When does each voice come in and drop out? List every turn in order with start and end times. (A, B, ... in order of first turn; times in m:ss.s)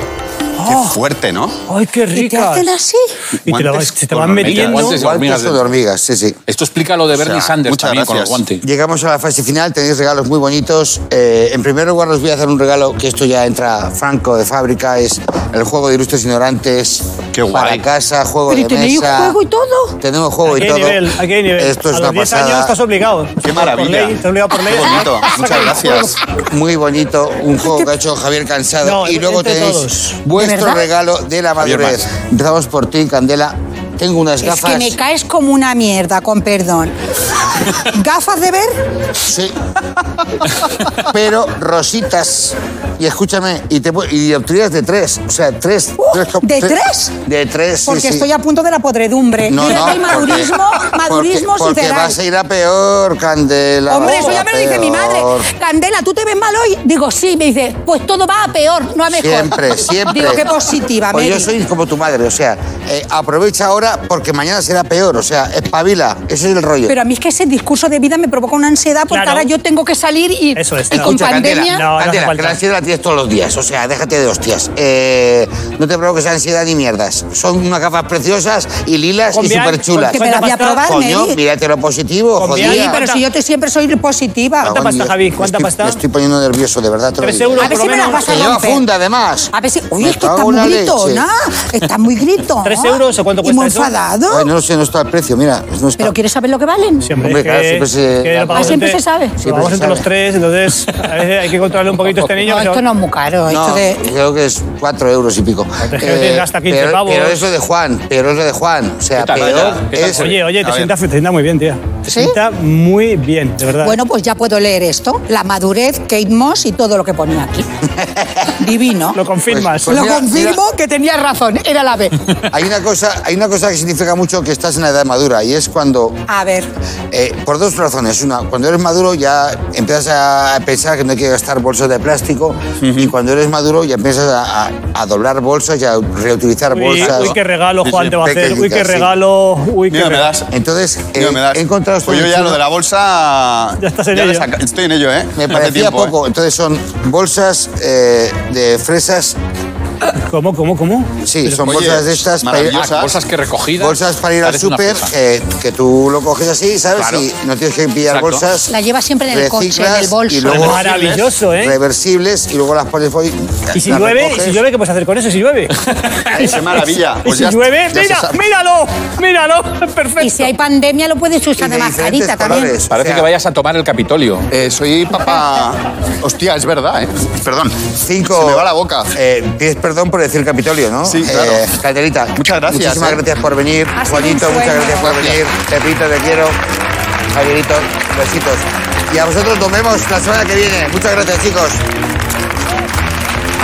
0:00.6-0:01.0 A
0:00.6-0:01.6 B
0:01.7-0:02.7 A
0:02.1-0:03.2 C
0:03.4-0:05.0 A
0:03.5-0:05.0 B
0:04.4-0:05.6 D
0:04.9-0:06.4 E
0:06.5-0:08.6 D
0:07.6-0:08.4 B
0:08.6-0:19.4 E
0:17.3-0:17.8 B
0:17.5-0:17.8 D
0:18.5-0:20.0 C
0:20.0-0:22.8 E
0:20.5-0:26.2 A
0:23.4-0:26.2 B
0:26.4-0:35.0 E
0:28.8-0:30.2 A
0:30.3-0:30.9 C
0:31.6-0:32.0 D
0:34.4-0:37.0 C
0:37.5-0:38.8 C
0:39.2-0:39.5 E
0:41.0-0:48.3 E
0:46.0-0:47.1 C
0:47.8-0:52.2 C
0:49.4-0:55.5 E
0:53.9-1:01.5 C
0:54.0-0:54.4 A
0:59.1-1:00.5 E
1:01.1-1:07.0 E
1:06.8-1:11.8 C
1:09.1-1:09.5 A
1:10.6-1:12.6 A
1:10.9-1:23.0 E
1:19.3-1:20.8 A
1:20.0-1:21.4 C
1:22.4-1:23.2 A
1:22.5-1:24.8 C
1:24.6-1:26.0 A
1:24.6-1:31.2 E
1:27.2-1:28.2 A
1:27.6-1:28.8 C
1:29.5-1:34.5 C
1:32.6-1:33.9 A
1:34.3-1:36.1 E
1:36.0-1:37.1 C
1:37.0-1:42.8 A
1:37.2-1:38.8 E
1:38.5-1:39.4 C
1:39.4-1:40.0 E
1:42.4-1:44.0 C
1:43.5-1:50.2 E
1:45.8-1:47.4 A
1:49.2-1:50.2 D
1:49.4-1:50.9 B
1:50.1-1:54.0 A
1:52.1-1:52.4 C
1:53.8-1:57.7 C
1:57.9-1:58.5 E
1:58.6-1:59.2 C
1:59.1-2:00.0 A
1:59.5-2:00.6 E
1:59.9-2:02.2 C
2:02.5-2:06.2 E
2:06.3-2:06.7 C
2:07.1-2:17.4 E
2:12.8-2:13.1 B
2:16.7-2:20.3 A
2:17.0-2:18.3 B
2:18.2-2:19.1 E
2:19.9-2:20.5 B
2:20.5-2:22.6 E
2:21.2-2:26.1 B
2:23.8-2:24.5 A
2:25.4-2:29.4 E
2:30.0-2:31.1 A
2:31.2-2:32.9 E
2:31.5-2:33.1 B
2:32.7-2:35.1 D
2:33.8-2:38.7 E
2:37.0-2:37.3 D
2:38.1-2:38.4 D
2:38.7-2:40.6 C
2:39.3-2:41.0 E
2:40.5-2:41.3 B
2:40.5-2:41.8 A
2:41.5-2:44.6 E
2:43.7-2:50.5 A
2:45.9-2:46.2 D
2:46.3-2:48.4 B
2:50.2-2:52.8 C
2:51.6-2:53.3 E
2:52.9-2:54.5 D
2:54.5-2:59.1 B
2:58.0-3:06.6 E
3:01.0-3:01.6 B
3:02.4-3:03.2 B
3:03.9-3:05.2 C
3:05.0-3:05.4 B
3:07.3-3:11.8 E